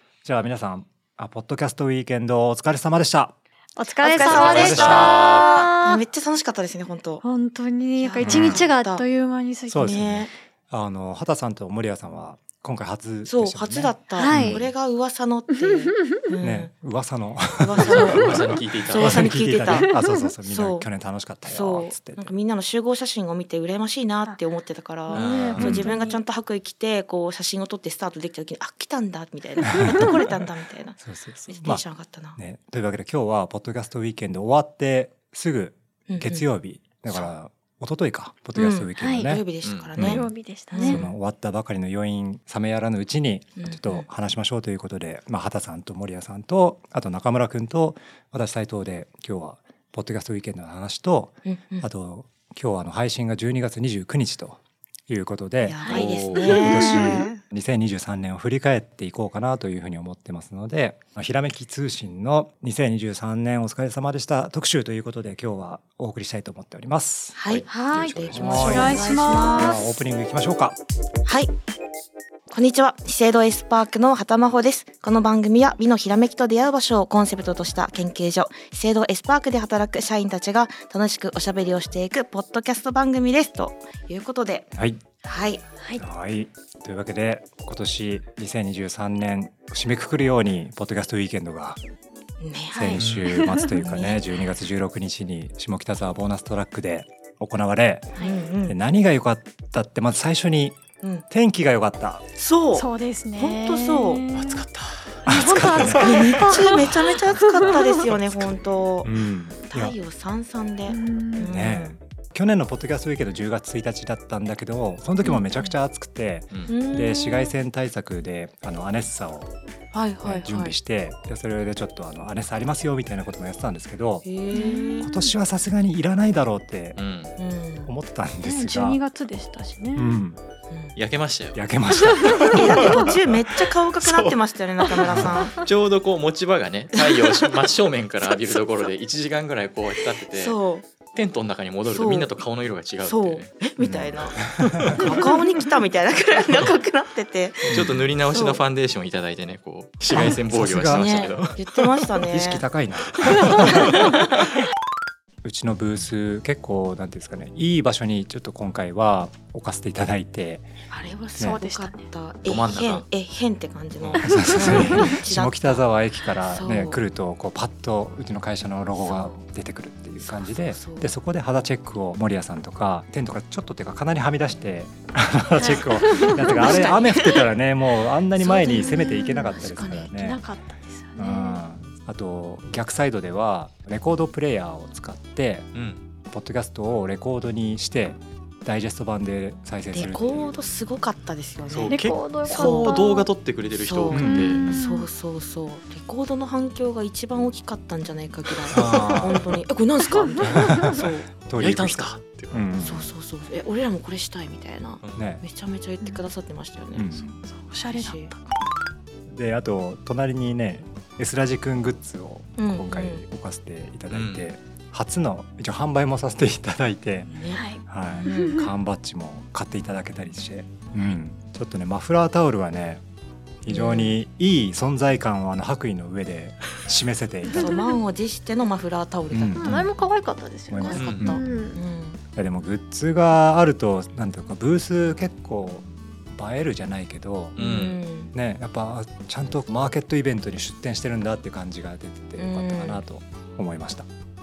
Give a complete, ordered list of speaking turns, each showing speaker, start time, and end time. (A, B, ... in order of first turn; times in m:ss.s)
0:00.2-0:03.4 A
0:03.8-0:06.0 B
0:04.0-0:07.2 C
0:04.1-0:05.7 D
0:04.4-0:05.2 A
0:07.2-0:10.1 B
0:08.0-0:09.0 C
0:08.2-0:08.7 A
0:09.7-0:14.7 A
0:09.8-0:10.3 C
0:13.3-0:16.7 C
0:14.2-0:14.6 B
0:15.6-0:16.3 B
0:16.4-0:22.3 A
0:17.6-0:20.0 C
0:17.8-0:19.4 D
0:19.7-0:20.3 B
0:20.5-0:20.9 C
0:21.5-0:32.4 C
0:25.1-0:26.2 B
0:25.1-0:25.8 D
0:25.3-0:25.9 A
0:29.8-0:30.2 A
0:31.0-0:31.8 A
0:32.4-0:39.4 A
0:36.1-0:36.4 C
0:38.6-0:41.1 C
0:39.0-0:39.3 B
0:39.6-0:40.2 D
0:40.0-0:40.3 A
0:40.0-0:41.0 B
0:40.8-1:10.8 A
0:43.6-0:44.1 C
0:51.5-0:51.9 C
0:55.6-0:57.4 C
0:55.9-0:56.9 D
1:07.4-1:09.9 C
1:07.5-1:08.9 D
1:08.5-1:09.8 B
1:11.3-1:11.5 C
1:12.5-1:25.7 C
1:24.8-1:25.0 A
1:26.0-1:31.8 A
1:32.4-1:33.0 C
1:32.7-1:33.8 B
1:32.7-1:42.2 A
1:33.0-1:33.4 D
1:33.8-1:34.2 C
1:38.2-1:38.8 C
1:42.4-1:44.2 C
1:42.8-1:44.7 B
1:44.3-1:45.2 D
1:45.3-1:47.0 A
1:45.3-1:47.9 B
1:46.0-1:49.1 C
1:47.6-1:48.2 A
1:49.0-1:50.0 A
1:49.7-1:51.9 C
1:50.9-1:51.6 B
1:51.4-1:59.5 A
1:55.2-1:55.7 C
1:56.7-1:57.5 C
1:59.9-2:00.7 C
2:00.4-2:04.3 A
2:04.2-2:05.1 C
2:04.5-2:05.3 B
2:05.0-2:07.0 A
2:07.0-2:07.4 D
2:07.4-2:07.9 C
2:07.9-2:09.0 A
2:08.4-2:10.2 B
2:10.0-2:10.4 A
2:11.0-2:13.1 D
2:11.5-2:13.1 A
2:12.2-2:12.5 B
2:12.4-2:15.6 C
2:14.0-2:14.4 D
2:14.9-2:20.6 D
2:15.1-2:15.4 A
2:17.0-2:17.5 C
2:18.3-2:18.6 C
2:20.3-2:20.9 C
2:21.1-2:23.5 D
2:21.9-2:22.3 C
2:23.0-2:28.6 C
2:23.8-2:25.1 A
2:27.7-2:28.1 A
2:27.7-2:31.8 D
2:30.1-2:31.5 A
2:30.1-2:32.6 C
2:32.2-2:34.2 A
2:33.5-2:34.3 C
2:35.4-2:40.7 A
2:40.9-2:45.8 C
2:41.4-2:42.0 B
2:42.4-2:43.1 D
2:44.0-2:44.8 D
2:44.2-3:00.4 A
2:44.6-2:45.1 B
2:46.5-2:47.0 C
2:49.0-2:49.4 C
2:50.2-2:51.1 C
2:55.6-2:56.9 B
2:56.4-2:57.5 C
2:58.4-3:00.1 C
2:58.7-2:59.5 B
3:00.2-3:01.6 B
3:01.2-3:05.7 A
3:05.7-3:06.0 D
3:06.3-3:10.6 A
3:09.9-3:13.0 C
3:11.7-3:14.6 D
3:11.9-3:13.3 B
3:13.8-3:21.3 C
3:14.1-3:14.5 A
3:14.2-3:15.1 B
3:18.7-3:19.6 A
3:18.8-3:19.1 D
3:20.1-3:20.9 B
3:20.4-3:23.1 A
3:21.6-3:22.6 D
3:22.8-3:27.1 C
3:25.0-3:25.3 D
3:25.2-3:25.4 A
3:27.0-3:27.4 A
3:27.4-3:28.6 B
3:27.9-3:28.3 C
3:29.3-3:37.3 A
3:32.6-3:33.2 C
3:34.1-3:34.5 D
3:37.3-3:38.7 C
3:37.5-3:38.7 B
3:37.8-3:43.0 A
3:43.6-3:47.8 A
3:43.7-3:44.2 C
3:47.5-3:47.9 B
3:47.6-3:49.8 C
3:49.3-3:49.9 A
3:49.6-3:51.8 B
3:50.7-3:51.4 A
3:50.8-3:52.2 C
3:51.0-3:51.4 D
3:52.4-3:57.6 A
3:57.6-3:58.0 D
3:57.6-3:58.3 C
3:58.3-4:04.1 A
4:02.4-4:03.0 C